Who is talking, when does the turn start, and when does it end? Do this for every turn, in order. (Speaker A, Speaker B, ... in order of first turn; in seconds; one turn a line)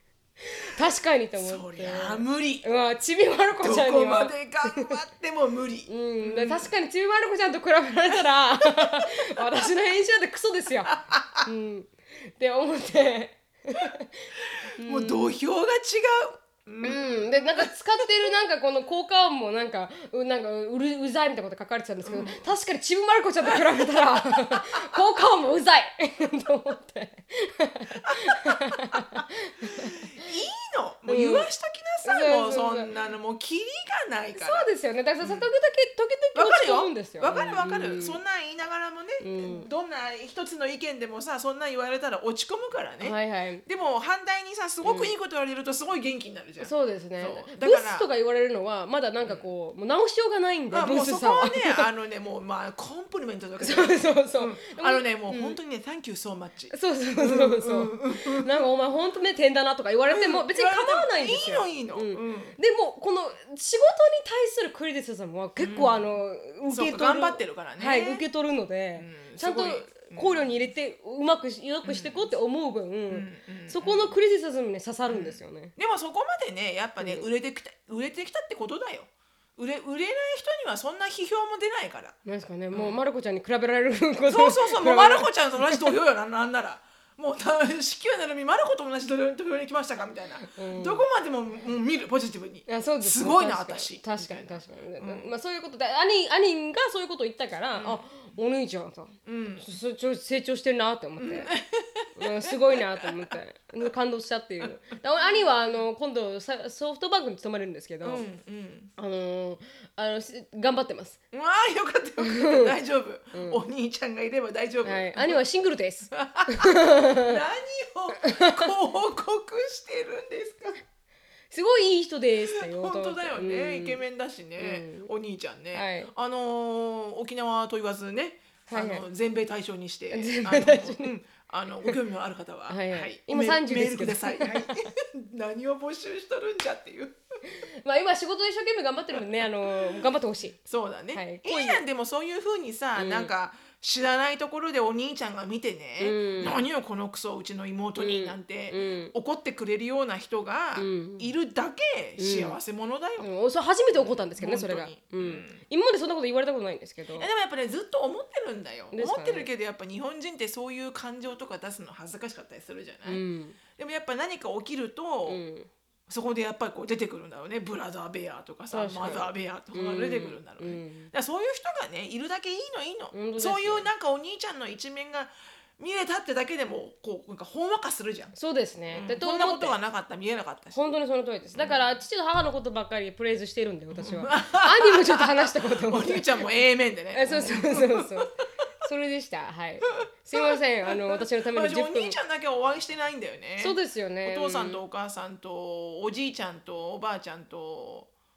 Speaker A: 0.5-5.0
Speaker B: 1.3-2.7
Speaker B: 3.6-6.7
Speaker A: 5.9-15.3
Speaker B: 8.1-9.7
Speaker B: 10.9-11.5
Speaker B: 14.6-18.0
Speaker A: 16.8-30.3
Speaker B: 22.0-22.5
Speaker B: 23.4-24.6
Speaker B: 28.0-34.7
Speaker A: 31.1-31.5
Speaker A: 32.0-32.9
Speaker A: 34.4-38.2
Speaker B: 35.2-35.5
Speaker B: 36.3-48.1
Speaker A: 39.2-39.7
Speaker A: 43.0-43.6
Speaker A: 44.8-45.1
Speaker A: 46.6-51.9
Speaker B: 50.7-58.5
Speaker A: 53.6-55.6
Speaker A: 56.7-75.7
Speaker B: 60.1-62.5
Speaker B: 65.6-66.2
Speaker B: 66.7-68.2
Speaker B: 69.0-70.5
Speaker B: 71.8-72.3
Speaker B: 73.1-74.1
Speaker B: 75.1-82.2
Speaker A: 77.0-77.3
Speaker A: 82.2-85.9
Speaker B: 82.7-83.0
Speaker B: 84.3-95.3
Speaker A: 90.4-91.0
Speaker A: 92.7-101.5
Speaker B: 97.7-98.0
Speaker B: 99.2-99.7
Speaker B: 101.2-103.3
Speaker A: 102.2-108.2
Speaker B: 104.6-105.8
Speaker B: 108.0-108.9
Speaker A: 109.0-111.2
Speaker B: 111.3-115.4
Speaker A: 112.2-112.7
Speaker A: 113.3-113.6
Speaker A: 114.8-117.4
Speaker B: 116.1-120.8
Speaker A: 118.2-118.7
Speaker A: 121.5-124.0
Speaker B: 122.5-137.2
Speaker A: 124.6-125.1
Speaker A: 125.7-126.1
Speaker A: 128.7-129.0
Speaker A: 130.1-131.1
Speaker A: 132.7-134.8
Speaker A: 137.4-140.6
Speaker B: 139.1-140.0
Speaker B: 140.6-153.3
Speaker A: 141.1-141.8
Speaker A: 142.9-143.3
Speaker A: 146.0-146.6
Speaker A: 148.0-149.1
Speaker A: 150.8-151.3
Speaker A: 152.2-152.6
Speaker A: 153.2-157.3
Speaker B: 153.9-155.6
Speaker B: 157.2-163.2
Speaker A: 158.9-159.5
Speaker A: 163.1-163.6
Speaker B: 163.8-165.4
Speaker A: 165.2-165.7
Speaker B: 166.1-178.3
Speaker A: 168.7-171.1
Speaker A: 173.1-173.9
Speaker A: 178.3-179.8
Speaker B: 178.9-180.8
Speaker A: 180.7-186.4
Speaker B: 181.5-181.8
Speaker B: 183.9-188.4
Speaker A: 187.1-188.3
Speaker A: 188.8-192.2
Speaker B: 189.9-198.1
Speaker A: 193.6-194.8